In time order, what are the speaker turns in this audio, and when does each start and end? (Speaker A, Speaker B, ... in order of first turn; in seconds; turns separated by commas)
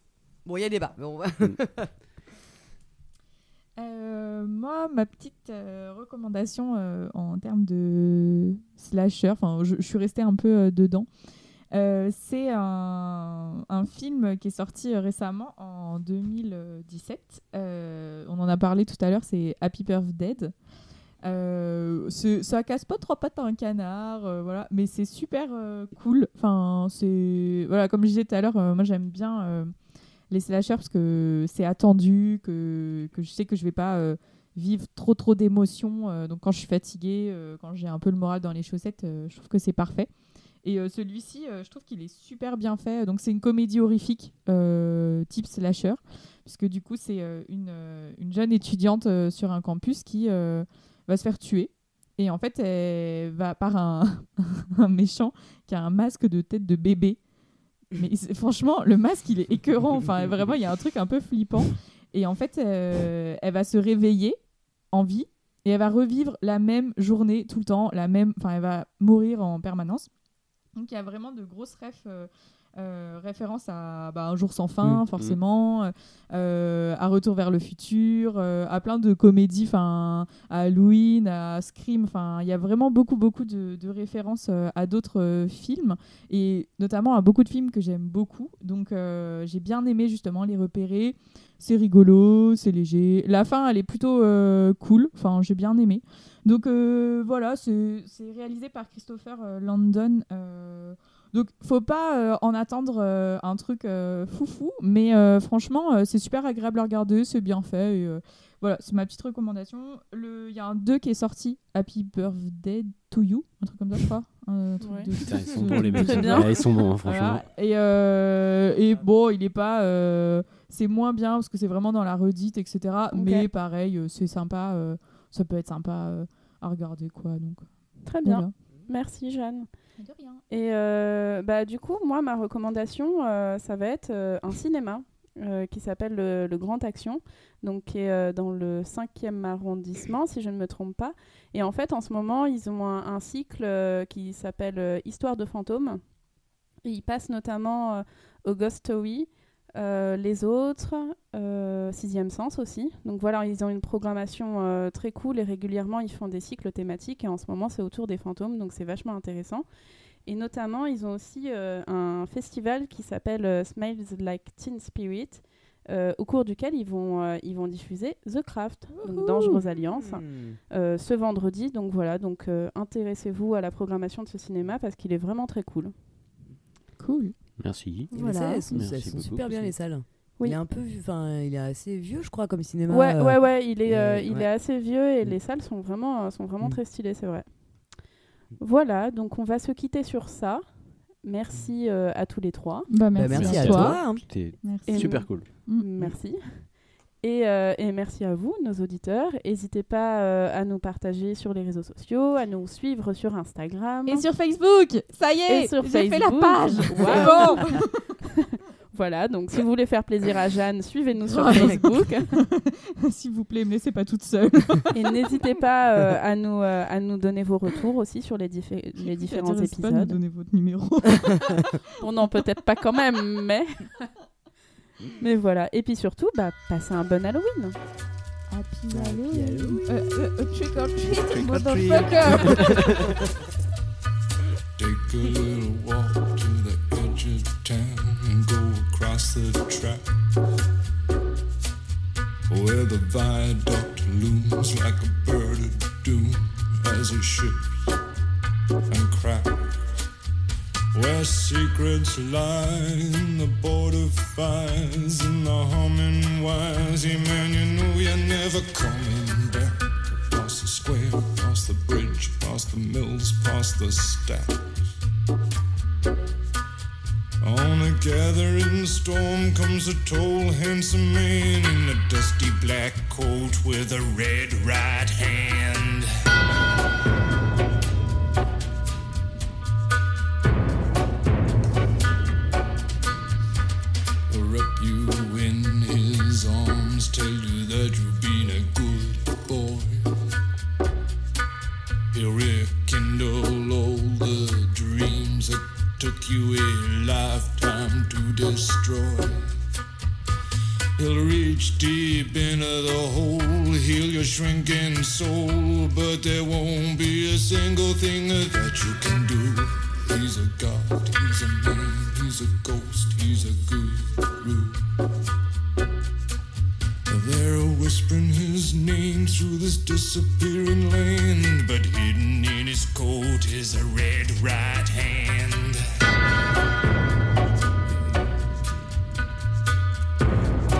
Speaker A: 0.4-1.9, Speaker B: 3.8-11.1, Speaker B: 11.7-20.5, Speaker B: 21.2-29.7, Speaker B: 30.3-40.1, Speaker B: 40.6-57.2, Speaker B: 57.9-64.4, Speaker B: 64.9-70.1, Speaker B: 70.7-127.7, Speaker C: 74.8-75.4, Speaker D: 114.8-115.1, Speaker C: 115.2-117.4, Speaker D: 115.8-116.6, Speaker D: 123.1-123.5, Speaker D: 128.1-129.7, Speaker B: 128.2-128.5, Speaker B: 130.0-130.4, Speaker D: 130.5-146.0, Speaker D: 146.8-159.6, Speaker D: 160.2-175.9, Speaker B: 169.0-169.6, Speaker A: 169.9-170.6, Speaker B: 177.0-177.3, Speaker C: 177.6-178.1, Speaker D: 178.1-178.6, Speaker A: 178.1-184.5, Speaker C: 178.7-179.8, Speaker D: 182.9-187.4, Speaker D: 188.6-190.6, Speaker D: 191.2-192.9, Speaker B: 192.9-194.0, Speaker A: 193.1-194.2, Speaker C: 193.3-195.5, Speaker B: 194.6-195.9, Speaker D: 194.8-196.7, Speaker D: 197.2-204.2, Speaker B: 204.1-208.2, Speaker D: 205.5-212.3, Speaker B: 211.3-214.9, Speaker A: 211.4-211.8, Speaker D: 214.9-220.2, Speaker B: 219.0-221.8, Speaker A: 221.3-221.6, Speaker D: 222.0-223.9, Speaker D: 225.2-227.8, Speaker B: 228.5-233.0, Speaker A: 228.9-229.9, Speaker E: 231.1-232.4, Speaker A: 231.3-233.2, Speaker E: 234.8-240.1, Speaker E: 242.5-247.9, Speaker E: 248.9-249.7, Speaker E: 250.9-264.8, Speaker E: 267.4-276.1, Speaker E: 284.3-290.1, Speaker E: 292.1-299.5, Speaker E: 301.0-314.8, Speaker E: 317.1-325.8